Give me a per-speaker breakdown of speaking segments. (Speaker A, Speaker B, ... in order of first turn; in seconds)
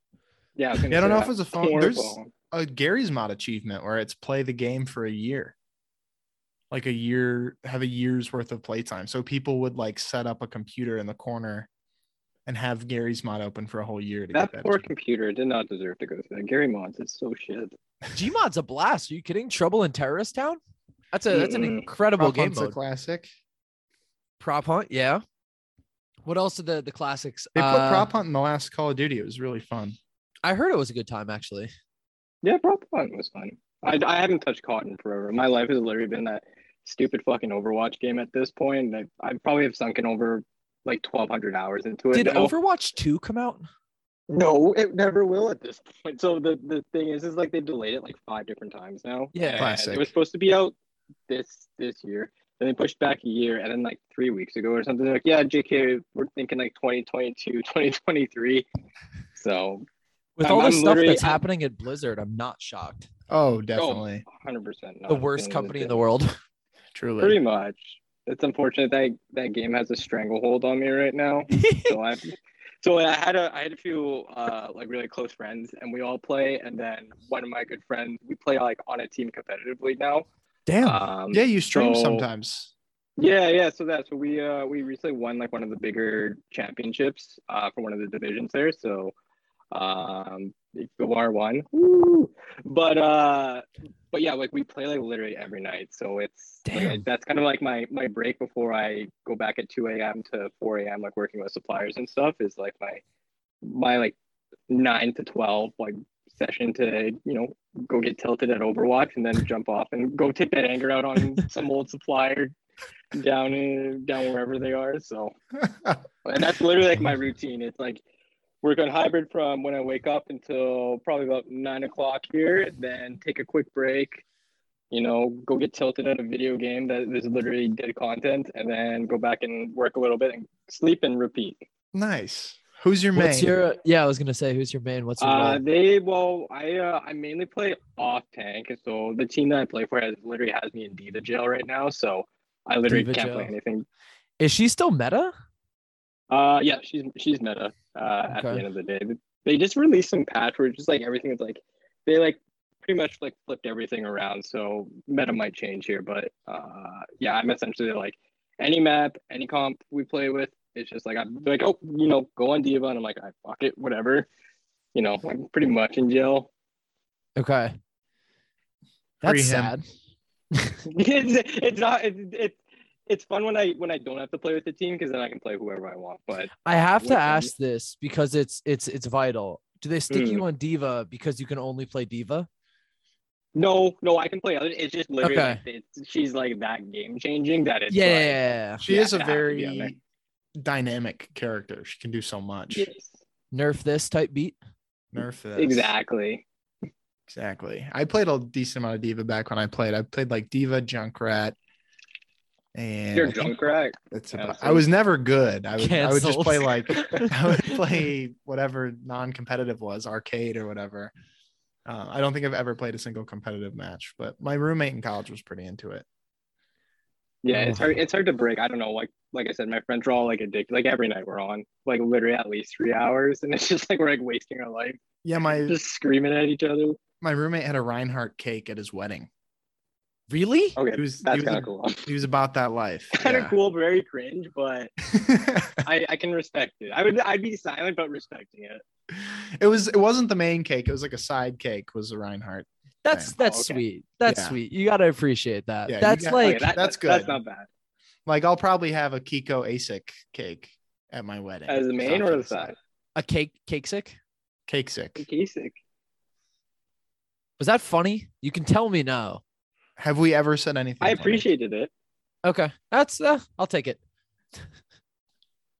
Speaker A: 0.6-2.3, 14.3-17.7, 21.3-21.8, 32.4-42.5, 44.3-50.7, 51.3-58.6, 59.4-59.8, 60.4-61.4, 63.7-66.0, 67.2-80.2, 80.8-82.3, 83.2-89.1, 89.7-103.0, 103.6-104.1, 104.7-112.5, 113.1-115.3, 116.2-118.0, 118.6-124.2, 124.9-131.6, 135.2-143.8, 146.3-164.2, 164.9-166.5, 170.8-177.5, 180.1-180.4, 183.5-189.9, 192.7-193.1, 195.6-196.4, 203.1-204.8, 217.4-227.0, 230.8-232.1, 233.1-234.9, 235.8-238.8, 243.4-243.8, 246.3-247.7, 251.7-252.7, 255.2-255.8, 261.0-261.9
Speaker B: 0.9-5.5, 6.7-11.7, 12.4-14.8, 22.2-23.3, 27.5-30.0, 49.6-50.1, 63.3-64.2, 66.9-67.4, 81.3-82.7, 115.7-116.0, 131.9-133.5, 169.2-169.8, 188.8-190.0, 190.6-192.9, 195.1-195.9, 197.3-201.6, 202.7-203.5, 204.1-211.1, 211.8-216.1, 225.2-225.8, 227.2-229.3, 230.9-233.5, 235.1-235.8, 239.2-243.3, 244.2-244.6, 245.9-247.4, 248.2-252.7, 254.7-255.2, 260.0-261.5
Speaker C: 18.1-20.6, 21.1-22.8, 24.4-25.2, 26.2-28.1, 30.4-31.7, 42.1-43.7, 49.3-49.7, 60.4-63.1, 65.1-66.3, 71.6-71.9, 80.7-81.0, 96.7-97.0, 133.1-135.6, 142.9-143.5, 144.4-145.3, 148.3-148.6, 167.3-167.7, 169.2-169.8, 176.6-182.5, 185.2-185.6, 187.9-188.8, 193.5-194.6, 205.8-208.0, 217.5-217.8, 230.3-230.8, 243.0-246.7, 253.2-254.2, 257.6-259.4, 262.4-264.0